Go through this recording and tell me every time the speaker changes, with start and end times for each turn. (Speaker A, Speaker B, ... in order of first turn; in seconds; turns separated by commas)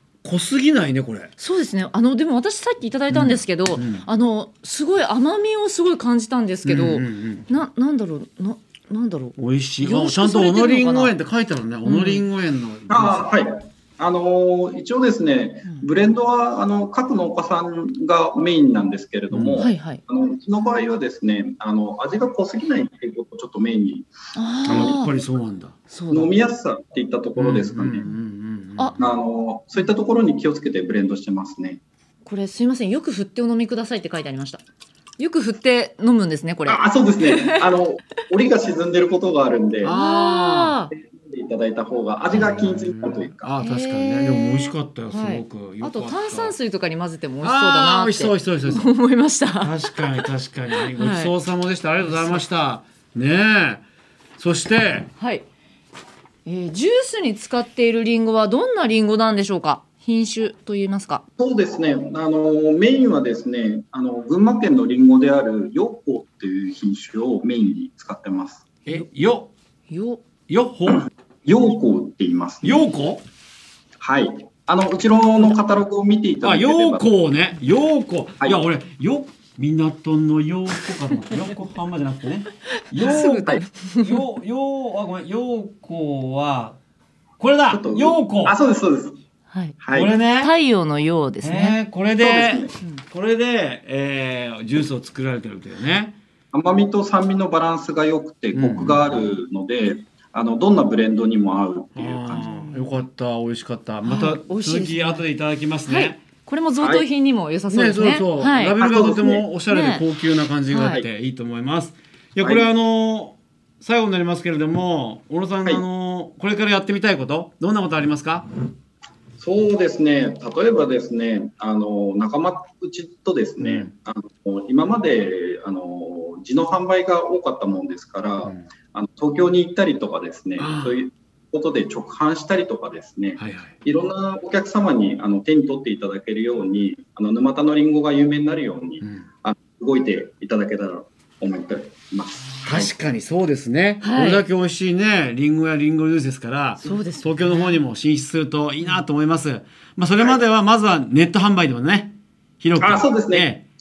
Speaker A: 0.2-1.3, Speaker B: 1.4-11.1, Speaker A: 3.1-4.0, Speaker A: 6.7-7.5, Speaker A: 9.4-13.3, Speaker B: 11.8-12.2, Speaker C: 12.9-24.1, Speaker A: 19.3-19.6, Speaker B: 19.6-20.0, Speaker B: 24.4-25.1, Speaker A: 24.7-25.8, Speaker C: 24.7-25.0, Speaker B: 25.9-26.3, Speaker C: 26.1-28.1, Speaker A: 27.4-29.0, Speaker C: 29.0-31.8, Speaker B: 32.2-34.6, Speaker B: 35.2-37.7, Speaker C: 36.7-40.0, Speaker A: 39.8-40.7, Speaker B: 39.9-40.9, Speaker C: 40.9-43.5, Speaker A: 42.4-46.6, Speaker B: 43.6-51.3, Speaker A: 47.4-48.9, Speaker A: 49.6-53.8, Speaker B: 52.0-52.4, Speaker A: 54.4-55.1, Speaker B: 55.2-55.5, Speaker B: 56.5-61.2, Speaker C: 61.4-68.7, Speaker A: 68.9-69.5, Speaker B: 69.9-70.2, Speaker A: 70.5-71.1, Speaker C: 70.9-72.9, Speaker A: 72.6-73.2, Speaker C: 74.0-77.1, Speaker A: 76.4-86.8, Speaker B: 83.0-84.2, Speaker A: 87.4-88.6, Speaker C: 87.7-89.2, Speaker B: 89.5-89.8, Speaker C: 89.8-90.1, Speaker A: 89.9-90.5, Speaker B: 90.4-91.8, Speaker A: 91.4-96.2, Speaker C: 92.2-92.7, Speaker C: 96.5-102.5, Speaker A: 98.5-99.0, Speaker A: 102.0-106.2, Speaker B: 102.3-103.0, Speaker B: 104.0-105.3, Speaker B: 105.8-110.0, Speaker C: 106.8-107.0, Speaker A: 107.7-118.5, Speaker C: 108.8-109.5, Speaker B: 110.7-111.0, Speaker C: 119.4-142.9, Speaker A: 123.6-123.9, Speaker A: 130.6-131.0, Speaker A: 133.4-133.7, Speaker A: 139.0-139.3, Speaker A: 142.6-153.6, Speaker B: 144.0-144.4, Speaker B: 146.8-147.8, Speaker C: 152.8-153.5